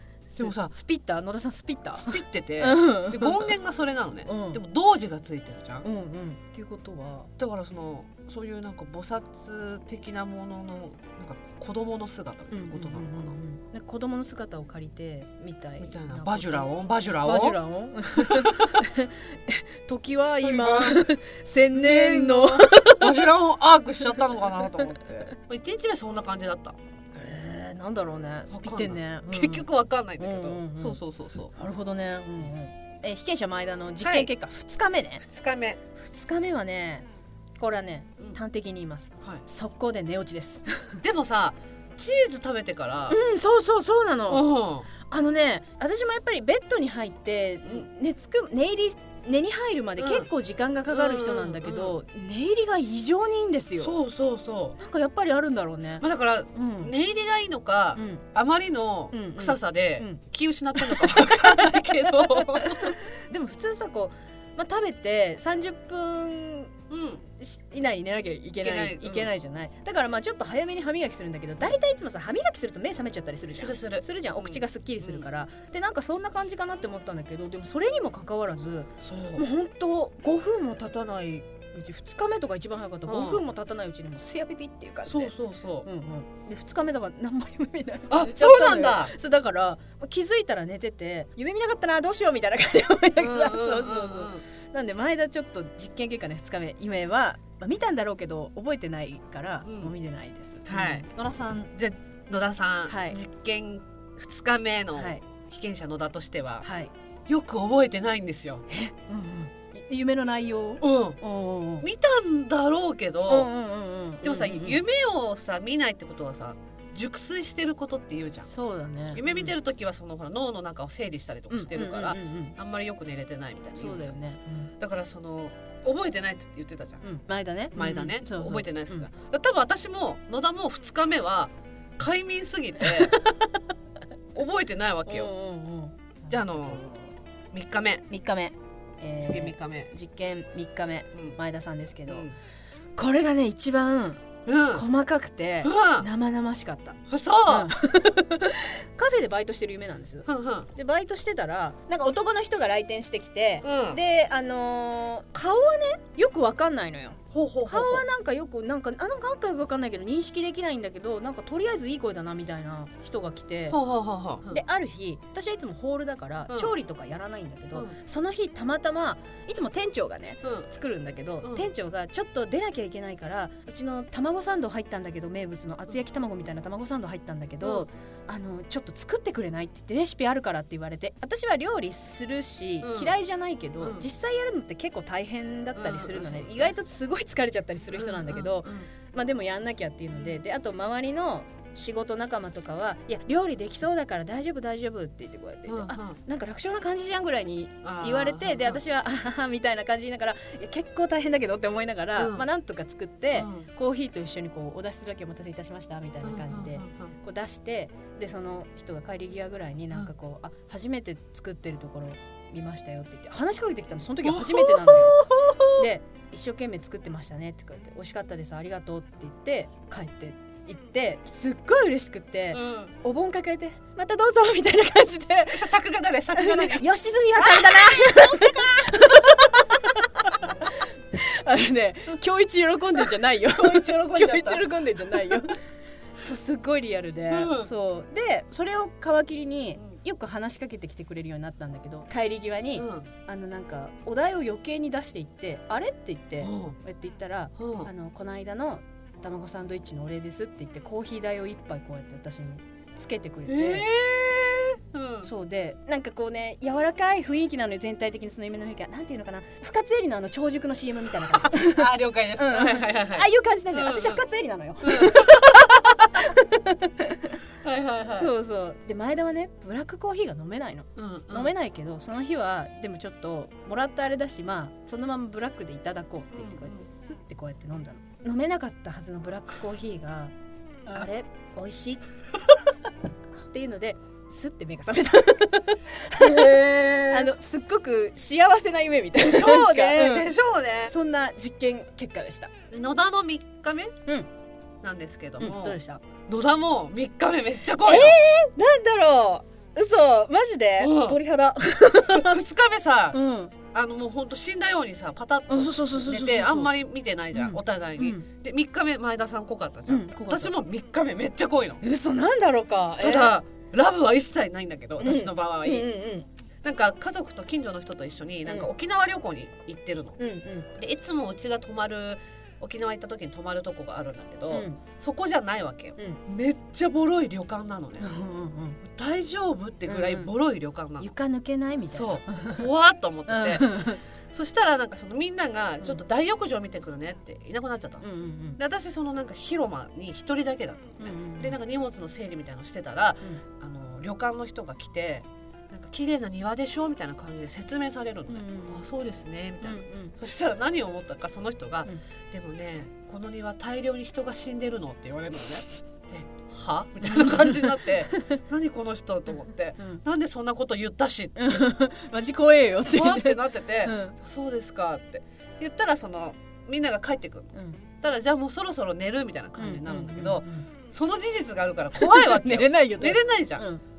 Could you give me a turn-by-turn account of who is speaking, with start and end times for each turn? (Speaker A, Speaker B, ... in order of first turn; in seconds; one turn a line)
Speaker A: 0.3-3.5
Speaker B: 0.3-0.7
Speaker B: 2.0-5.8
Speaker A: 4.2-4.6
Speaker A: 5.8-7.3
Speaker B: 7.4-13.4
Speaker A: 12.5-16.7
Speaker B: 15.8-17.6
Speaker A: 17.2-23.2
Speaker B: 18.1-18.8
Speaker B: 20.4-21.0
Speaker B: 21.7-26.8
Speaker A: 27.1-29.6
Speaker B: 28.5-31.5
Speaker A: 30.2-31.0
Speaker A: 31.5-35.2
Speaker B: 34.0-34.3
Speaker B: 35.2-35.8
Speaker A: 36.0-37.1
Speaker A: 37.6-40.9
Speaker B: 41.0-43.2
Speaker A: 43.1-53.9
Speaker B: 44.3-44.9
Speaker B: 50.0-50.3
Speaker B: 50.9-52.0
Speaker B: 53.8-54.8
Speaker A: 54.8-56.9
Speaker B: 56.0-63.0
Speaker A: 58.0-58.2
Speaker A: 59.1-60.2
Speaker A: 60.8-66.7
Speaker B: 66.9-67.2
Speaker A: 67.4-85.3
Speaker B: 68.6-69.3
Speaker B: 73.5-75.3
Speaker B: 79.0-79.4
Speaker B: 83.1-83.4
Speaker B: 85.0-85.9
Speaker A: 85.8-101.7
Speaker B: 88.1-89.1
Speaker B: 93.2-94.4
Speaker B: 99.6-99.9
Speaker B: 100.6-101.1
Speaker B: 101.7-106.7
Speaker A: 102.9-103.2
Speaker A: 104.9-105.2
Speaker A: 106.6-106.9
Speaker B: 107.3-108.6
Speaker A: 108.7-111.8
Speaker B: 110.8-111.2
Speaker B: 111.8-113.5
Speaker A: 113.3-114.8
Speaker B: 114.2-118.5
Speaker A: 118.5-119.5
Speaker B: 119.1-124.1
Speaker A: 121.5-122.5
Speaker A: 123.8-124.7
Speaker B: 124.8-127.0
Speaker A: 127.0-129.1
Speaker B: 127.7-133.1
Speaker A: 132.8-133.5
Speaker B: 134.3-135.3
Speaker A: 135.1-137.1
Speaker B: 136.3-136.8
Speaker B: 137.5-138.1
Speaker A: 138.1-142.3
Speaker B: 139.2-139.9
Speaker B: 142.1-142.3
Speaker A: 142.9-163.8
Speaker B: 144.4-144.8
Speaker B: 145.6-146.1
Speaker B: 147.1-147.7
Speaker B: 150.3-150.7
Speaker B: 153.6-154.0
Speaker B: 157.3-158.1
Speaker B: 163.7-164.6
Speaker A: 164.5-225.7
Speaker B: 166.5-166.7
Speaker B: 170.4-170.7
Speaker B: 171.4-171.7
Speaker B: 177.6-177.9
Speaker B: 182.8-183.1
Speaker B: 183.8-184.0
Speaker B: 185.7-186.7
Speaker B: 187.9-188.9
Speaker B: 190.1-190.4
Speaker B: 195.7-196.2
Speaker B: 197.8-198.8
Speaker B: 202.2-202.4
Speaker B: 203.3-203.7
Speaker B: 206.2-207.1
Speaker B: 214.2-215.8
Speaker B: 222.5-222.9
Speaker B: 225.5-229.8
Speaker A: 226.3-235.6
Speaker B: 233.5-235.4
Speaker A: 236.2-253.9
Speaker B: 237.3-237.7
Speaker B: 242.8-243.1
Speaker B: 246.4-246.8
Speaker B: 247.6-247.9
Speaker B: 253.5-255.3
Speaker A: 255.2-267.4
Speaker B: 261.4-264.2
Speaker B: 264.8-266.2
Speaker B: 267.6-268.3
Speaker A: 268.1-280.3
Speaker B: 270.9-271.5
Speaker B: 276.3-276.9
Speaker A: 280.9-282.0
Speaker A: 283.5-290.3
Speaker B: 286.2-287.3
Speaker B: 289.2-290.9
Speaker A: 290.9-292.5
Speaker B: 292.7-293.9
Speaker B: 294.8-298.2
Speaker A: 295.4-296.0
Speaker A: 297.8-302.4
Speaker B: 300.8-301.2
Speaker B: 302.1-303.2
Speaker A: 303.1-303.5
Speaker B: 303.7-311.8
Speaker A: 305.5-306.7
Speaker A: 307.3-308.2
Speaker A: 309.9-310.5
Speaker A: 311.8-313.3
Speaker B: 313.0-315.9
Speaker A: 315.0-316.3
Speaker B: 316.6-320.2
Speaker A: 320.2-320.7
Speaker B: 320.7-328.1
Speaker A: 324.5-324.8
Speaker A: 328.0-328.8
Speaker B: 328.8-331.1
Speaker A: 329.9-330.3
Speaker A: 331.0-332.6
Speaker B: 331.9-333.7
Speaker A: 333.3-334.0
Speaker B: 334.3-338.1
Speaker A: 338.0-338.6
Speaker B: 338.6-361.6
Speaker A: 341.0-341.6
Speaker A: 348.3-348.9
Speaker A: 349.6-350.1
Speaker A: 357.0-358.4
Speaker A: 361.4-364.1
Speaker B: 362.9-373.7
Speaker A: 367.5-367.8
Speaker A: 369.6-370.7
Speaker A: 371.9-373.8